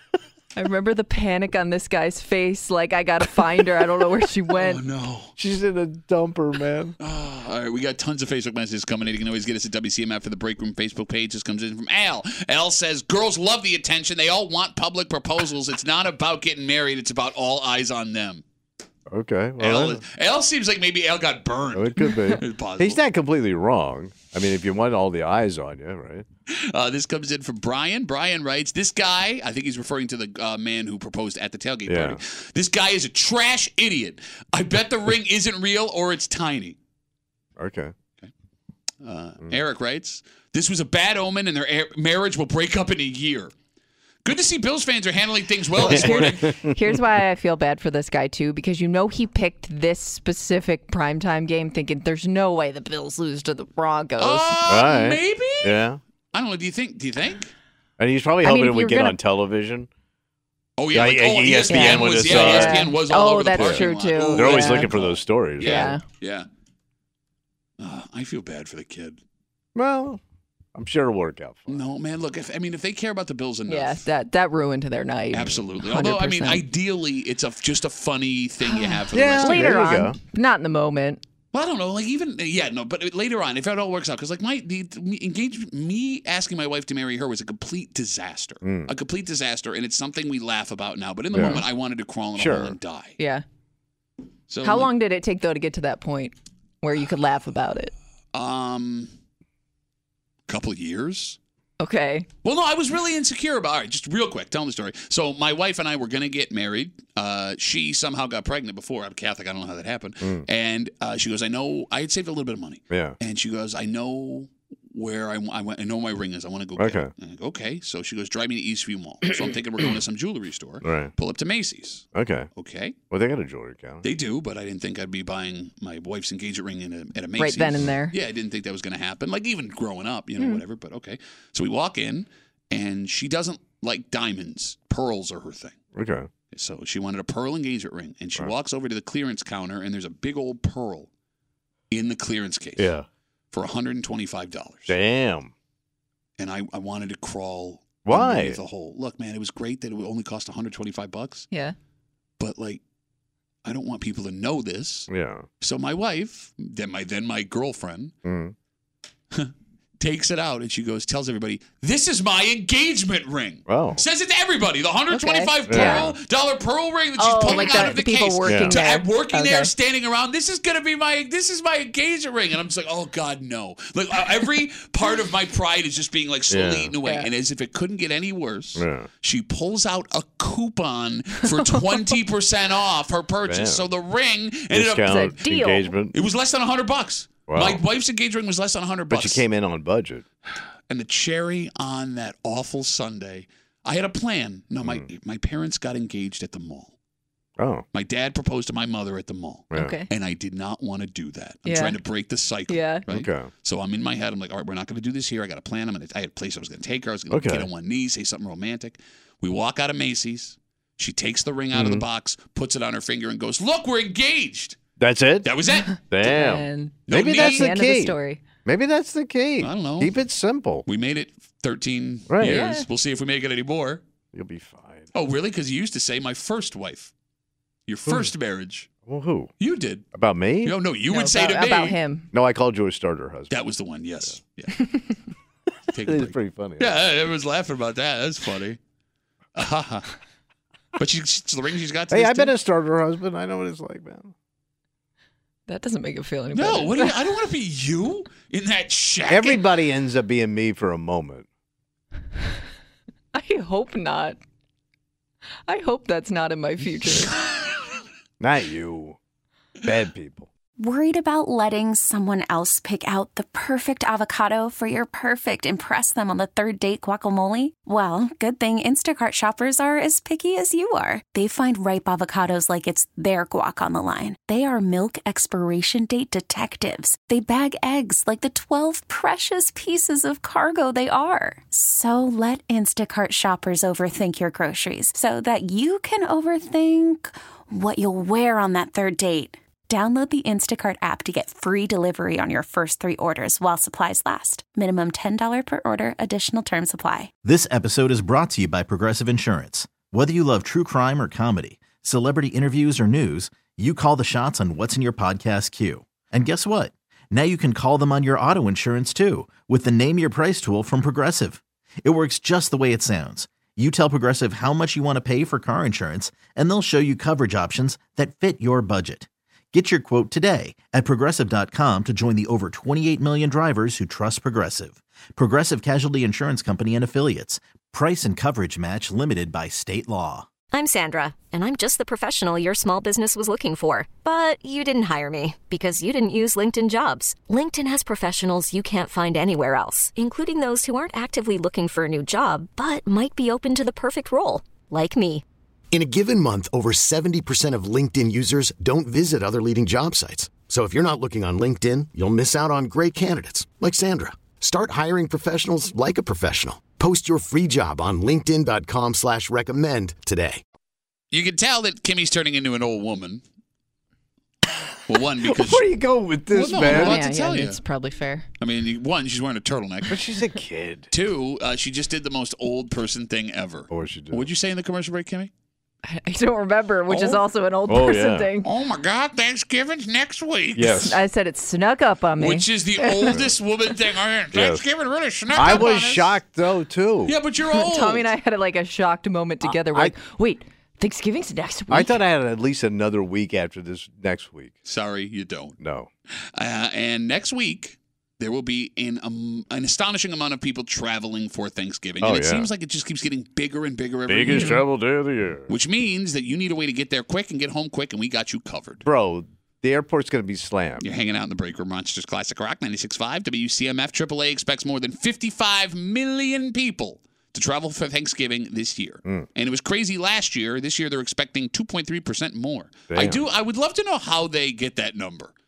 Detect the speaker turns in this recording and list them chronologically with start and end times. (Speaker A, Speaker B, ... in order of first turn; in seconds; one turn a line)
Speaker A: 0.5-4.8
Speaker B: 4.5-5.3
Speaker C: 5.3-6.9
Speaker B: 7.0-18.4
Speaker C: 19.1-20.0
Speaker B: 19.6-23.0
Speaker C: 21.7-26.2
Speaker B: 26.5-36.8
Speaker C: 31.9-32.2
Speaker C: 37.6-37.9
Speaker B: 39.0-43.5
Speaker B: 44.2-46.5
Speaker C: 45.8-47.0
Speaker A: 45.8-54.5
Speaker B: 54.2-57.5
Speaker C: 54.7-56.0
Speaker C: 58.0-59.9
Speaker A: 58.4-59.2
Speaker B: 60.8-66.5
Speaker C: 60.9-62.9
Speaker A: 61.7-64.9
Speaker C: 63.5-66.0
Speaker A: 65.6-66.0
Speaker B: 67.8-69.2
Speaker C: 69.7-70.2
Speaker C: 70.7-71.8
Speaker B: 71.7-74.0
Speaker A: 73.7-76.6
Speaker B: 75.3-79.8
Speaker A: 78.6-81.2
Speaker C: 79.1-80.2
Speaker B: 81.5-93.2
Speaker C: 88.6-88.9
Speaker C: 91.3-91.7
Speaker C: 92.3-92.8
Speaker A: 93.2-93.4
Speaker B: 94.5-94.9
Speaker A: 94.6-97.9
Speaker B: 98.3-99.1
Speaker B: 100.5-101.4
Speaker A: 101.8-102.3
Speaker B: 102.4-123.0
Speaker C: 112.9-113.2
Speaker C: 116.8-117.1
Speaker C: 120.8-121.1
Speaker C: 122.1-122.5
Speaker C: 123.1-124.0
Speaker B: 124.0-135.8
Speaker A: 127.4-128.1
Speaker C: 135.9-136.3
Speaker B: 136.5-141.1
Speaker B: 141.9-142.9
Speaker C: 142.8-143.1
Speaker B: 143.5-144.9
Speaker C: 144.9-145.5
Speaker B: 146.4-151.5
Speaker C: 148.0-148.6
Speaker B: 152.4-152.8
Speaker B: 153.6-155.1
Speaker C: 155.1-155.5
Speaker B: 155.6-158.1
Speaker C: 158.2-158.5
Speaker B: 159.3-185.3
Speaker C: 163.7-164.0
Speaker A: 165.1-166.1
Speaker C: 165.7-166.2
Speaker A: 167.2-169.7
Speaker C: 167.5-168.8
Speaker C: 176.5-176.9
Speaker C: 178.8-179.1
Speaker C: 183.4-183.8
Speaker C: 184.7-186.1
Speaker A: 185.1-185.9
Speaker B: 186.1-189.4
Speaker C: 187.5-187.8
Speaker C: 189.1-190.2
Speaker B: 190.9-196.9
Speaker C: 197.6-197.8
Speaker B: 197.9-214.8
Speaker C: 199.7-199.9
Speaker A: 199.7-200.1
Speaker A: 201.7-202.0
Speaker A: 202.7-203.0
Speaker C: 203.1-203.5
Speaker C: 207.3-207.7
Speaker C: 211.7-212.0
Speaker C: 215.0-220.8
Speaker B: 215.4-216.1
Speaker A: 215.9-218.4
Speaker B: 217.1-217.7
Speaker B: 219.6-220.1
Speaker B: 220.9-224.0
Speaker C: 222.3-222.7
Speaker A: 222.4-222.8
Speaker C: 224.3-225.1
Speaker B: 225.1-227.1
Speaker B: 227.9-228.9
Speaker C: 229.1-229.5
Speaker B: 229.6-230.0
Speaker C: 230.1-230.8
Speaker B: 230.6-232.0
Speaker A: 231.1-232.3
Speaker C: 232.3-233.6
Speaker B: 233.5-235.1
Speaker B: 235.9-238.8
Speaker C: 235.9-236.9
Speaker B: 239.5-240.1
Speaker B: 241.0-242.5
Speaker C: 242.1-244.3
Speaker A: 245.7-247.1
Speaker B: 246.5-249.6
Speaker C: 249.3-251.5
Speaker A: 253.3-254.4
Speaker A: 255.7-257.3
Speaker C: 258.4-259.2
Speaker C: 259.8-260.5
Speaker D: 260.8-297.3
Speaker E: 297.4-330.5
Speaker F: 330.7-345.4
Speaker G: 345.9-360.6
Speaker B: 361.3-363.4
Speaker B: 365.1-365.9
Speaker C: 365.4-367.2
Speaker B: 366.5-367.8
Speaker A: 366.8-368.4
Speaker B: 368.6-370.2
Speaker C: 370.1-371.1
Speaker B: 371.1-375.5
Speaker C: 373.9-374.5
Speaker A: 376.1-378.7
Speaker B: 377.1-377.4
Speaker C: 377.9-378.5
Speaker B: 378.6-381.1
Speaker C: 380.7-381.2
Speaker A: 380.9-383.3
Speaker B: 382.4-386.3
Speaker C: 384.5-384.8
Speaker C: 385.5-387.3
Speaker B: 387.2-388.3
Speaker A: 387.7-392.1
Speaker C: 389.6-390.1
Speaker C: 391.9-394.8
Speaker B: 394.9-395.8
Speaker C: 395.8-396.1
Speaker B: 396.5-404.8
Speaker C: 402.2-402.7
Speaker C: 404.3-405.7
Speaker A: 404.5-404.8
Speaker B: 405.7-409.0
Speaker C: 409.0-411.0
Speaker B: 411.0-425.5
Speaker C: 423.1-423.4